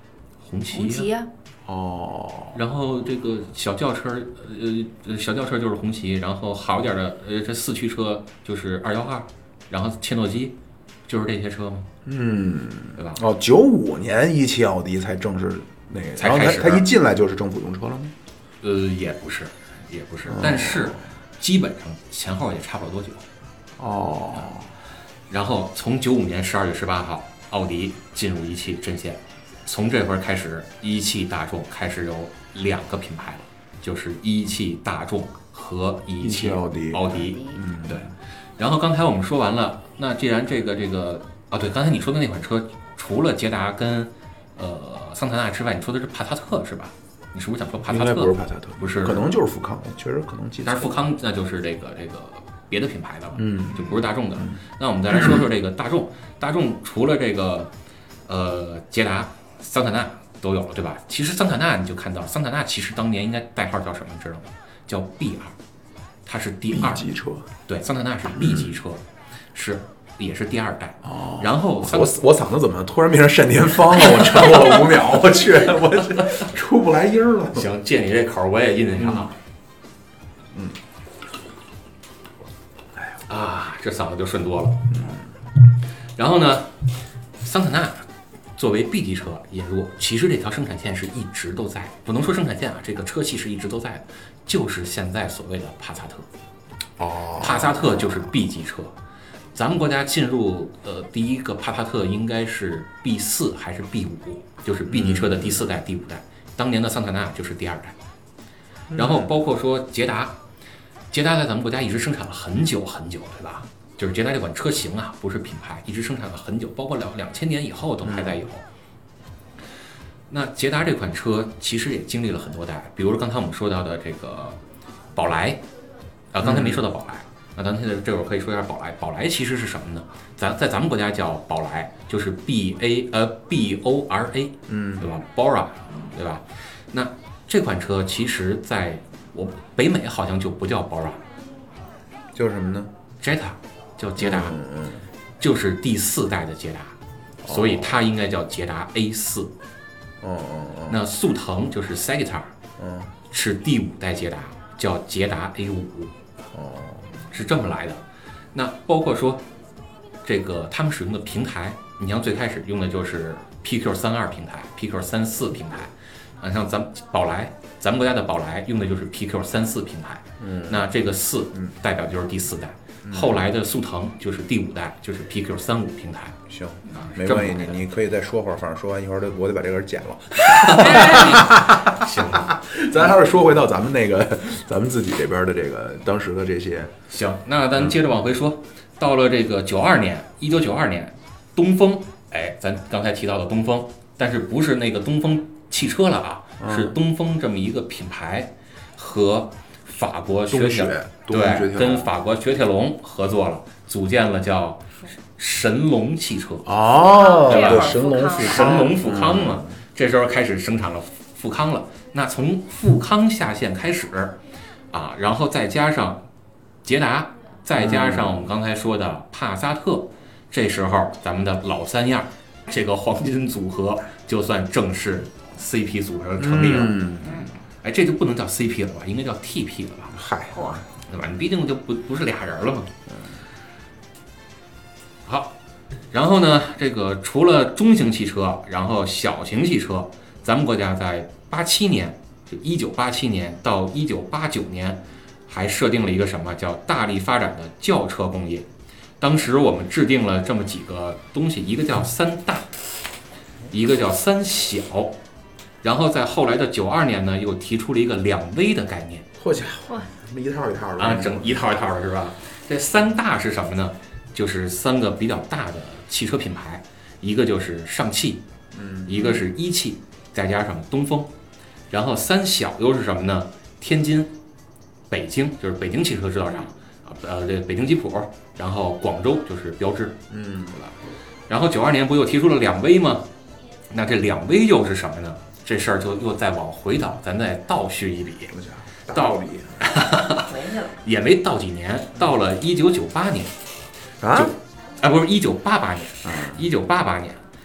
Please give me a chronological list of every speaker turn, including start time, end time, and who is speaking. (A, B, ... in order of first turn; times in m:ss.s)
0:00.4-0:01.1 A
0:00.7-0:01.3 B
0:01.7-0:02.6 C
0:02.5-0:10.6 A
0:11.1-0:11.9 A
0:12.0-0:18.1 C
0:13.0-0:13.2 A
0:16.2-0:16.9 A
0:18.6-0:23.2 A
0:20.3-0:21.0 C
0:23.8-0:24.7 C
0:25.3-0:38.1 A
0:36.2-0:38.1 C
0:37.4-0:37.6 B
0:38.6-0:49.3 A
0:47.9-0:51.0 C
0:50.6-0:57.7 A
0:53.4-0:54.6 C
0:58.3-1:05.6 A
1:06.3-1:07.1 A
1:06.7-1:07.5 C
1:07.7-1:09.0 A
1:08.4-1:08.7 C
1:09.5-1:12.2 A
1:11.0-1:17.7 C
1:17.5-1:19.4 A
1:19.0-1:19.3 C
1:23.3-1:24.9 A
1:24.9-1:25.2 C
1:26.2-1:26.8 A
1:27.4-1:36.3 A
1:37.0-1:38.3 C
1:37.4-1:38.9 A
1:39.5-1:48.0 A
1:44.9-1:45.6 C
1:48.9-1:49.3 C
1:49.0-1:50.4 A
1:51.1-1:58.6 A
1:58.0-1:58.4 C
2:00.3-2:04.6 A
2:05.2-2:05.6 A
2:06.3-2:21.2 A
2:06.4-2:06.8 C
2:14.7-2:15.2 C
2:22.4-2:22.9 C
2:23.2-2:24.6 A
2:24.2-2:25.0 C
2:25.4-2:27.0 A
2:27.4-2:28.0 C
2:27.5-2:29.5 A
2:30.2-2:31.0 C
2:30.9-2:32.5 A
2:32.8-2:33.1 C
2:33.3-2:36.1 A
2:36.5-2:37.1 C
2:37.3-2:38.0 A
2:38.5-2:39.4 A
2:40.2-2:56.4 A
2:50.4-2:50.9 C
2:53.0-2:53.4 C
2:56.5-3:06.9 C
2:56.9-2:57.8 A
3:00.4-3:02.6 A
3:07.1-3:26.8 A
3:16.6-3:17.0 C
3:20.5-3:22.1 C
3:26.6-3:29.8 C
3:27.0-3:28.9 B
3:27.4-3:34.4 A
3:34.9-3:36.2 A
3:36.8-3:47.2 A
3:37.8-3:38.5 C
3:46.4-3:47.4 C
3:47.8-3:50.2 A
3:50.1-3:50.8 C
3:50.5-3:50.8 B
3:51.0-3:52.9 A
3:55.3-3:55.6 A
3:56.1-4:08.7 A
4:09.2-4:12.7 A
4:13.7-4:15.2 A
4:15.8-4:19.3 A
4:19.4-4:21.6 C
4:21.0-4:28.4 A
4:28.7-4:29.4 C
4:29.1-4:31.3 A
4:31.9-4:34.3 A
4:35.1-4:40.9 A
4:40.3-4:40.8 C
4:41.5-4:43.3 A
4:43.9-4:48.6 A
4:48.5-4:49.9 C
4:49.1-4:53.5 A
4:50.5-4:51.0 B
4:54.2-4:54.5 C
4:54.3-4:57.4 A
4:56.2-4:56.6 C